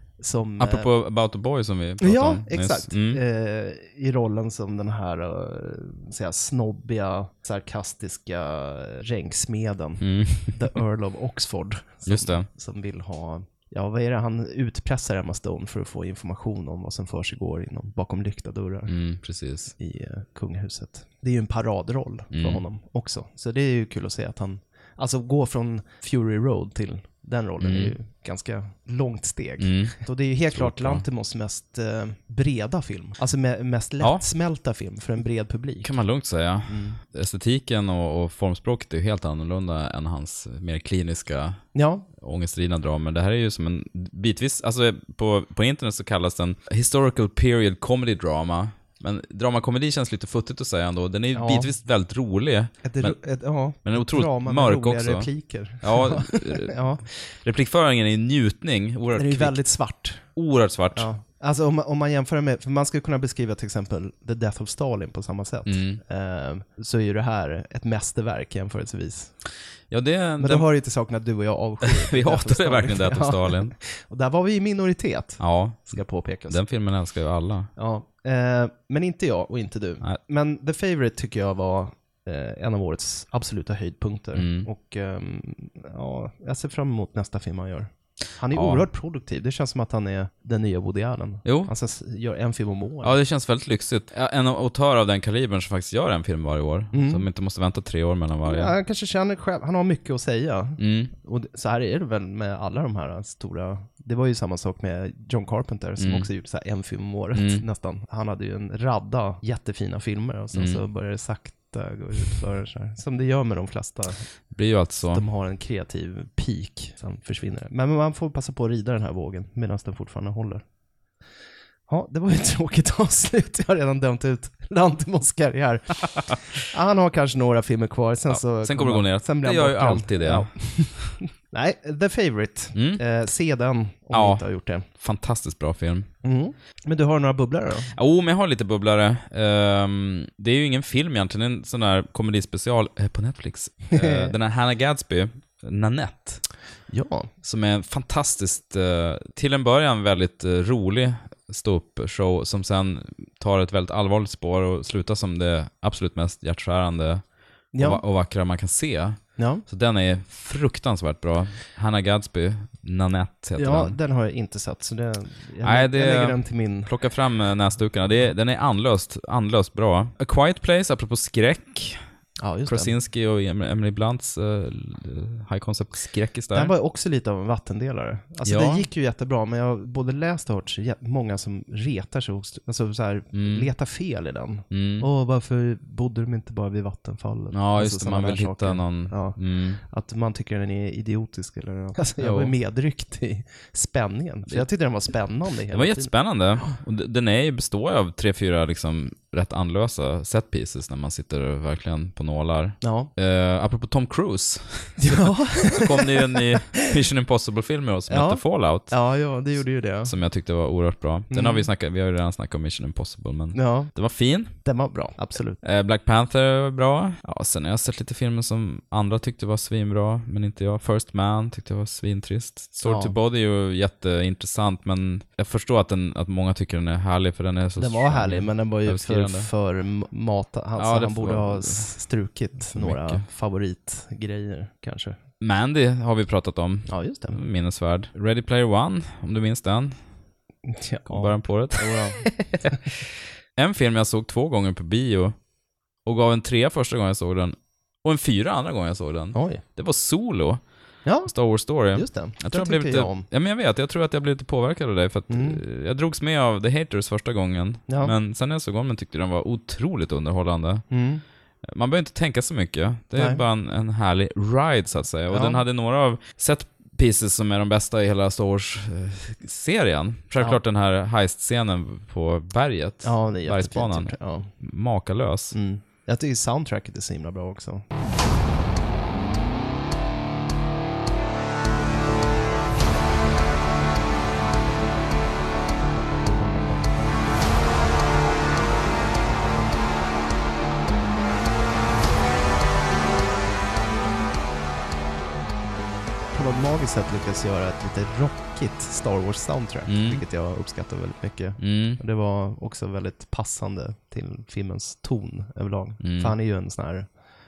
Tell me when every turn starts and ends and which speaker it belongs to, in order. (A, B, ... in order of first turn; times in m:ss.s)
0:00.2-0:00.9 A
0:00.6-0:03.2 B
0:02.0-0:18.9 A
0:10.0-0:10.6 B
0:12.0-0:12.5 B
0:18.9-0:19.7 B
0:19.8-0:35.9 A
0:22.3-0:22.6 B
0:27.6-0:27.9 B
0:29.6-0:30.0 B
0:30.5-0:31.0 B
0:35.8-0:41.6 B
0:36.7-0:37.0 A
0:41.7-0:42.1 A
0:42.2-0:53.2 B
0:51.3-0:51.7 A
0:52.8-0:57.0 A
0:53.8-0:56.7 B
0:57.4-0:59.6 B
0:59.1-1:00.3 A
1:00.3-1:01.1 B
1:00.9-1:09.4 A
1:05.6-1:06.0 B
1:09.9-1:10.7 B
1:10.4-1:16.6 A
1:11.8-1:13.7 B
1:15.4-1:17.7 B
1:17.8-1:33.2 A
1:24.3-1:24.7 B
1:28.5-1:28.8 B
1:31.4-1:31.7 B
1:33.0-1:38.7 B
1:36.9-1:37.2 A
1:38.4-1:54.2 A
1:40.8-1:41.1 B
1:46.0-1:46.3 B
1:47.3-1:47.6 B
1:50.5-1:50.8 B
1:54.5-1:55.2 B
1:55.0-2:00.6 A
2:01.9-2:14.8 A
2:08.3-2:11.1 B
2:12.7-2:13.0 B
2:14.1-2:16.1 B
2:16.2-2:17.9 A
2:17.9-2:26.4 B
2:23.9-2:24.3 A
2:26.9-2:27.3 A
2:27.4-2:37.2 B
2:37.7-2:38.0 A
2:37.8-2:44.0 B
2:39.4-2:39.6 A
2:43.6-2:46.9 A
2:45.6-2:52.0 B
2:52.4-2:52.9 A
2:52.6-2:56.7 B
2:56.5-3:16.7 A
2:58.4-2:58.8 B
3:03.3-3:03.7 B
3:04.7-3:05.1 B
3:07.5-3:09.8 B
3:12.2-3:12.5 B
3:15.7-3:28.9 B
3:22.8-3:23.1 A
3:25.0-3:26.4 A
3:28.1-3:30.1 A
3:30.0-3:34.6 B
3:31.3-3:31.7 A
3:33.5-3:33.9 A
3:34.6-3:35.6 A
3:35.6-3:49.5 B
3:42.8-3:43.2 A
3:47.8-3:55.2 A
3:50.8-3:51.9 B
3:52.6-3:53.2 B
3:55.4-4:00.0 B
3:56.9-3:57.4 A
4:00.6-4:02.8 A
4:01.1-4:02.7 B
4:03.6-4:05.3 B
4:06.0-4:10.6 B
4:09.3-4:09.6 A
4:11.0-4:13.3 A
4:11.2-4:20.8 B
4:15.3-4:15.6 A
4:17.9-4:18.1 A
4:20.9-4:21.2 A
4:21.6-4:35.6 B
4:23.1-4:23.4 A
4:25.3-4:25.6 A
4:33.0-4:34.5 A
4:35.5-4:37.8 A
4:45.9-4:47.2 A
4:56.3-5:07.1 A
4:59.9-5:00.2 B
5:01.6-5:02.0 B
5:06.0-5:06.3 B